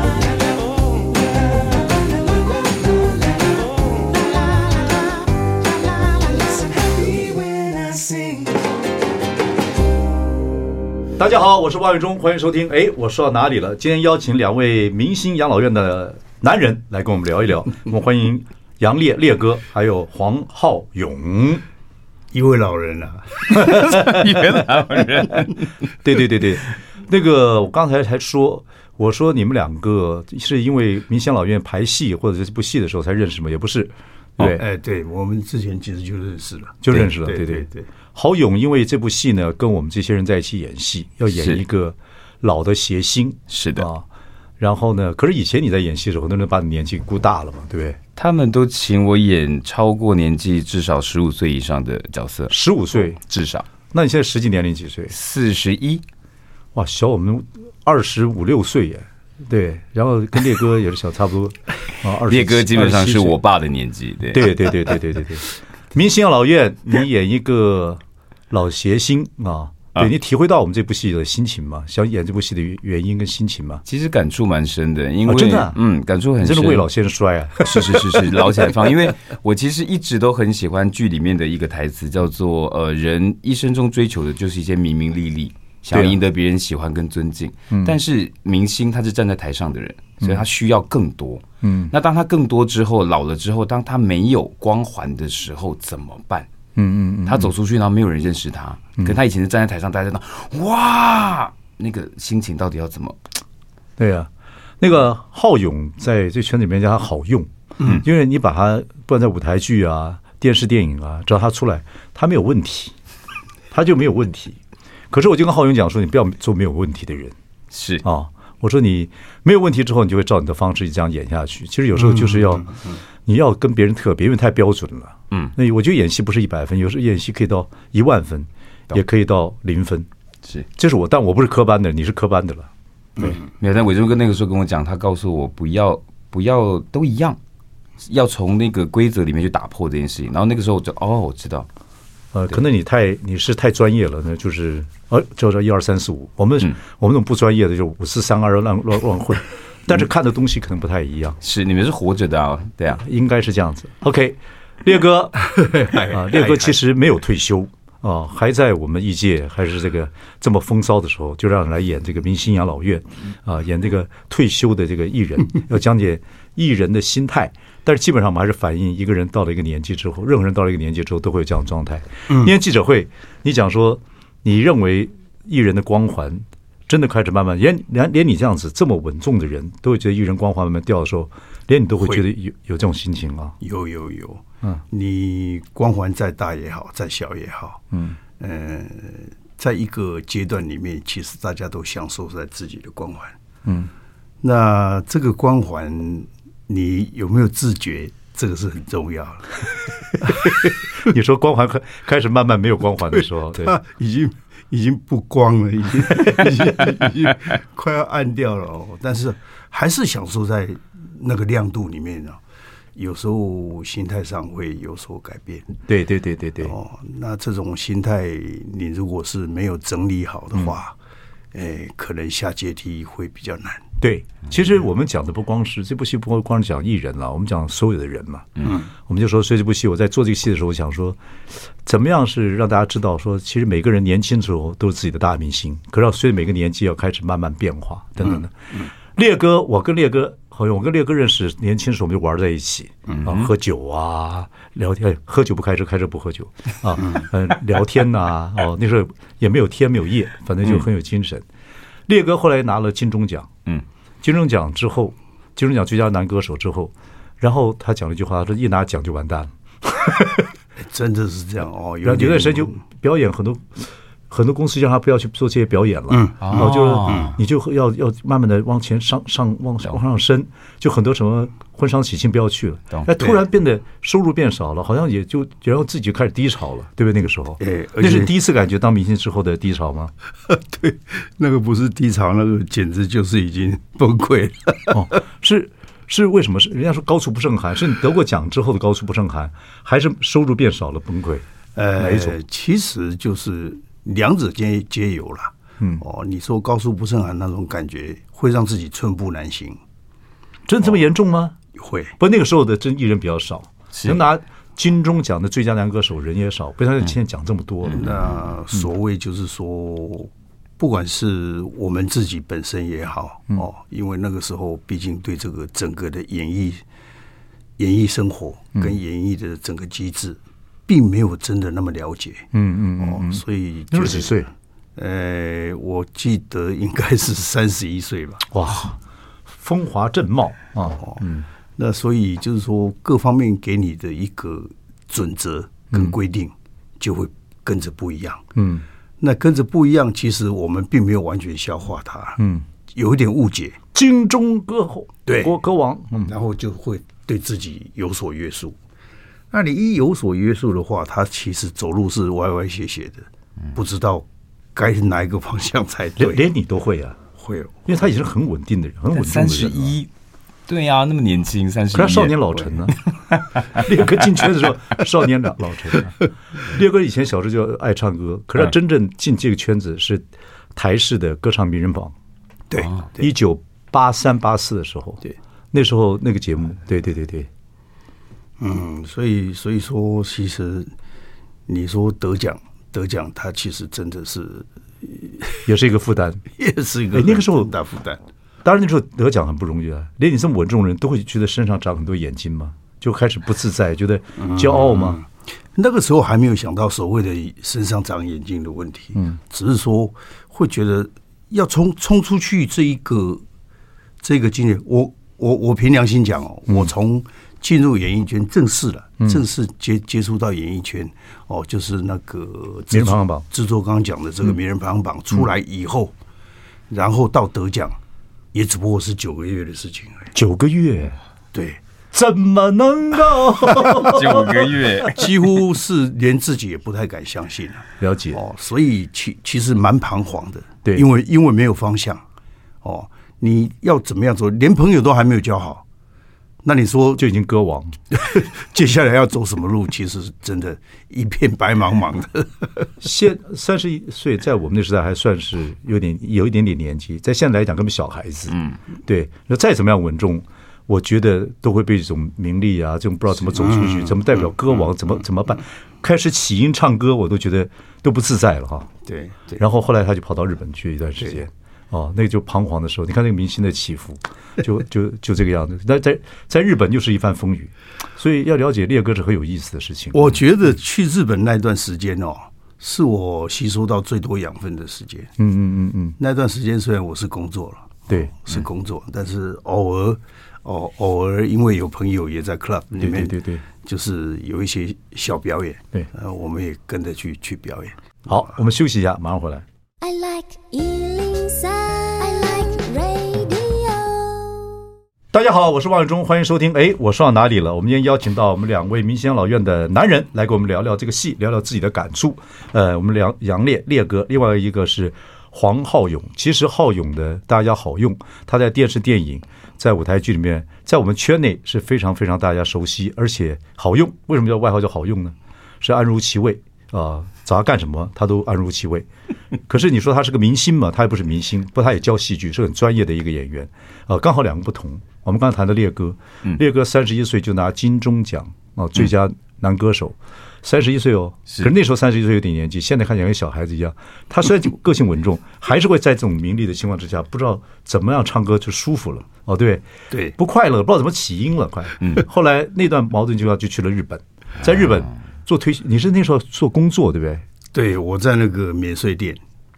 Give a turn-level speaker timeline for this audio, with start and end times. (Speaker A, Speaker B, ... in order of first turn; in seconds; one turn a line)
Speaker A: 11.2-21.6
Speaker B: 22.3-24.0
Speaker C: 23.5-25.7
Speaker A: 23.6-24.1
Speaker A: 26.0-34.6
Speaker B: 34.4-37.9
Speaker A: 36.8-44.0
Speaker C: 43.5-43.9
Speaker A: 44.6-48.0
Speaker C: 48.2-53.7
Speaker A: 52.5-53.2
Speaker A: 53.9-55.1
Speaker C: 55.1-56.0
Speaker A: 56.7-63.4
Speaker C: 62.3-64.6
Speaker A: 64.3-73.8
Speaker C: 73.8-76.9
Speaker A: 75.2-75.8
Speaker A: 76.4-78.4
Speaker C: 77.6-96.5
Speaker A: 85.9-86.2
Speaker A: 87.7-88.0
Speaker A: 91.6-91.9
Speaker A: 96.7-97.5
Speaker C: 97.2-103.2
Speaker A: 104.0-112.9
Speaker A: 113.7-114.6
Speaker A: 115.1-117.3
Speaker C: 117.7-118.0
Speaker A: 118.0-130.1
Speaker B: 122.1-122.9
Speaker A: 130.8-132.7
Speaker C: 133.3-137.4
Speaker C: 138.0-141.7
Speaker A: 142.3-151.4
Speaker C: 151.4-153.0
Speaker A: 153.0-183.5
Speaker B: 155.5-156.7
Speaker B: 183.6-187.8
Speaker A: 187.9-188.2
Speaker B: 188.4-193.4
Speaker A: 193.6-193.9
Speaker B: 194.4-200.5
Speaker A: 201.0-203.7
Speaker B: 203.1-212.4
Speaker B: 212.9-215.8
Speaker A: 215.9-216.7
Speaker B: 216.6-220.9
Speaker B: 221.5-223.8
Speaker A: 224.0-231.2
Speaker A: 231.8-251.4
Speaker B: 238.2-238.9
Speaker C: 243.1-243.5
Speaker B: 247.0-247.3
Speaker A: 252.1-253.5
Speaker A: 254.2-260.5
Speaker B: 260.8-262.8
Speaker A: 262.0-280.1
Speaker B: 266.1-267.4
Speaker C: 266.4-267.4
Speaker B: 277.6-278.3
Speaker B: 280.5-285.1
Speaker A: 284.9-291.4
Speaker B: 291.7-299.8
Speaker A: 292.0-292.3
Speaker A: 300.7-301.6
Speaker B: 301.7-302.1
Speaker A: 302.2-308.1
Speaker B: 307.9-316.8
Speaker B: 317.8-328.5
Speaker A: 322.5-324.5
Speaker A: 328.5-331.4
Speaker B: 331.8-338.4
Speaker A: 338.6-338.8
Speaker B: 339.2-342.4
Speaker A: 342.4-342.6
Speaker B: 342.9-343.8
Speaker A: 343.9-346.3
Speaker B: 345.2-345.5
Speaker B: 346.3-348.8
Speaker B: 349.5-356.4
Speaker A: 356.2-357.2
Speaker B: 357.4-357.9
Speaker A: 357.9-359.9
Speaker C: 359.1-360.1
Speaker C: 360.7-362.4
Speaker A: 361.9-363.0
Speaker A: 363.7-370.2
Speaker A: 370.8-372.1
Speaker B: 372.7-373.3
Speaker A: 373.1-377.5
Speaker B: 378.6-380.9
Speaker B: 381.7-385.6
Speaker A: 385.6-386.4
Speaker B: 386.6-388.2
Speaker A: 387.1-387.7
Speaker A: 388.6-395.2
Speaker B: 394.4-403.4
Speaker B: 404.2-416.1
Speaker A: 412.9-413.4
Speaker B: 416.9-418.0
Speaker B: 418.5-420.3
Speaker A: 420.3-421.2
Speaker B: 421.5-421.8
Speaker A: 422.1-424.9
Speaker C: 423.9-425.2
Speaker B: 425.1-432.2
Speaker A: 428.0-428.4
Speaker B: 432.8-435.8
Speaker B: 436.6-437.2
Speaker A: 437.2-438.0
Speaker B: 438.1-442.9
Speaker A: 443.0-458.9
Speaker B: 453.5-454.9
Speaker B: 459.1-459.6
Speaker A: 459.6-470.4
Speaker B: 470.1-475.3
Speaker A: 475.4-476.2
Speaker B: 476.2-488.5
Speaker A: 483.0-483.6
Speaker A: 488.3-489.6
Speaker D: 490.0-494.8
Speaker A: 495.3-519.1
Speaker A: 519.7-547.4
Speaker B: 547.7-549.4